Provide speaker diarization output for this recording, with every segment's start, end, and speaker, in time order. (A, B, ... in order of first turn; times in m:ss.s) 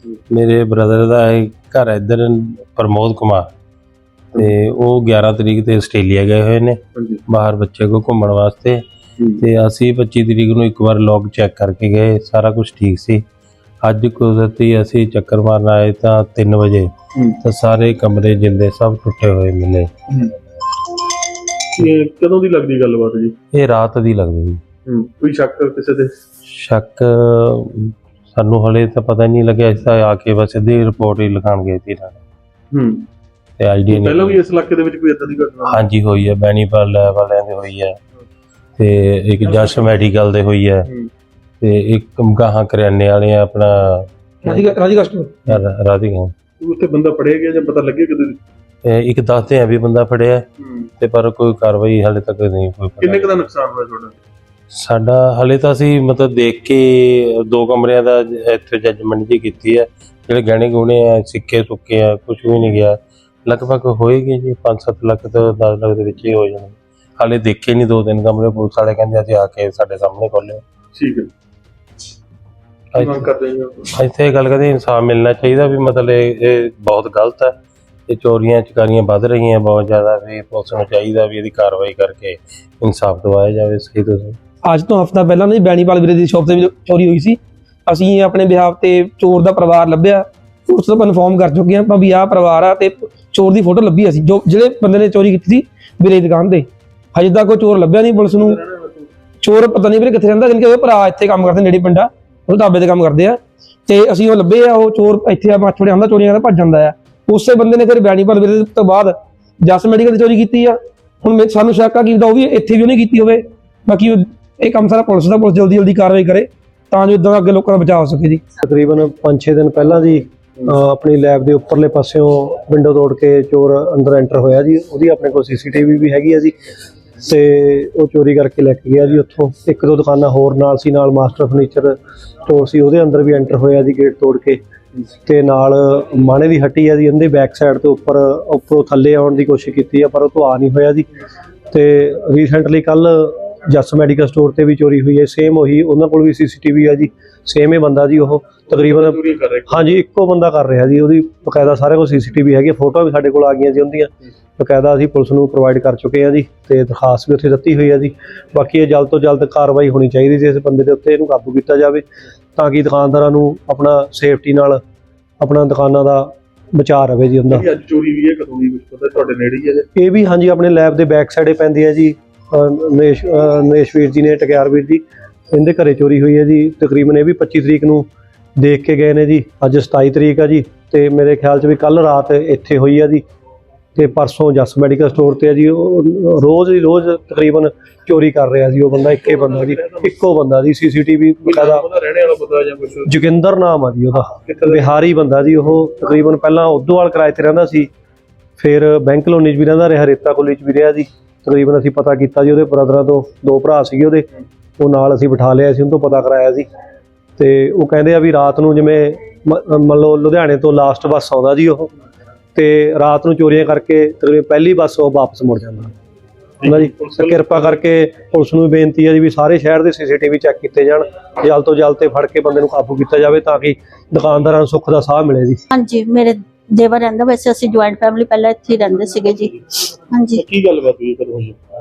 0:00.3-0:03.5 A
0:04.3-0:08.8 A
0:07.0-0:07.2 B
0:09.4-0:13.3 A
0:13.8-0:19.9 A
0:21.8-0:23.4 B
0:23.5-0:24.6 A
0:24.9-0:26.2 B
0:26.5-0:32.2 A
0:32.7-0:33.1 B
0:33.6-0:34.4 A
0:33.9-0:35.8 B
0:35.6-0:38.0 A
0:38.8-0:40.9 A
0:41.6-0:44.7 A
0:44.5-0:45.4 C
0:45.4-0:46.3 A
0:46.6-0:48.4 B
0:48.8-0:50.5 A
0:50.6-0:50.9 B
0:51.0-0:53.4 A
0:53.0-0:54.2 B
0:54.7-1:10.6 A
1:10.9-1:11.3 B
1:12.9-1:13.3 A
1:13.0-1:13.8 B
1:13.9-1:24.4 A
1:24.6-1:38.6 C
1:38.3-1:39.1 B
1:39.4-1:58.4 C
1:58.6-2:06.6 D
2:07.2-2:14.6 D
2:15.3-2:21.1 D
2:21.7-2:42.0 D
2:28.7-2:29.8 B
2:42.6-2:44.8 D
2:45.4-2:47.7 D
2:47.5-2:49.9 B
2:50.0-3:03.2 D
3:04.0-3:11.9 D
3:09.3-3:10.0 B
3:11.4-3:13.1 B
3:13.1-3:17.9 D
3:18.6-3:24.3 D
3:24.8-3:26.7 D
3:27.4-3:31.9 D
3:32.6-3:35.9 D
3:36.6-3:37.3 B
3:36.6-3:45.6 D
3:45.7-3:50.4 E
3:50.3-3:51.6 B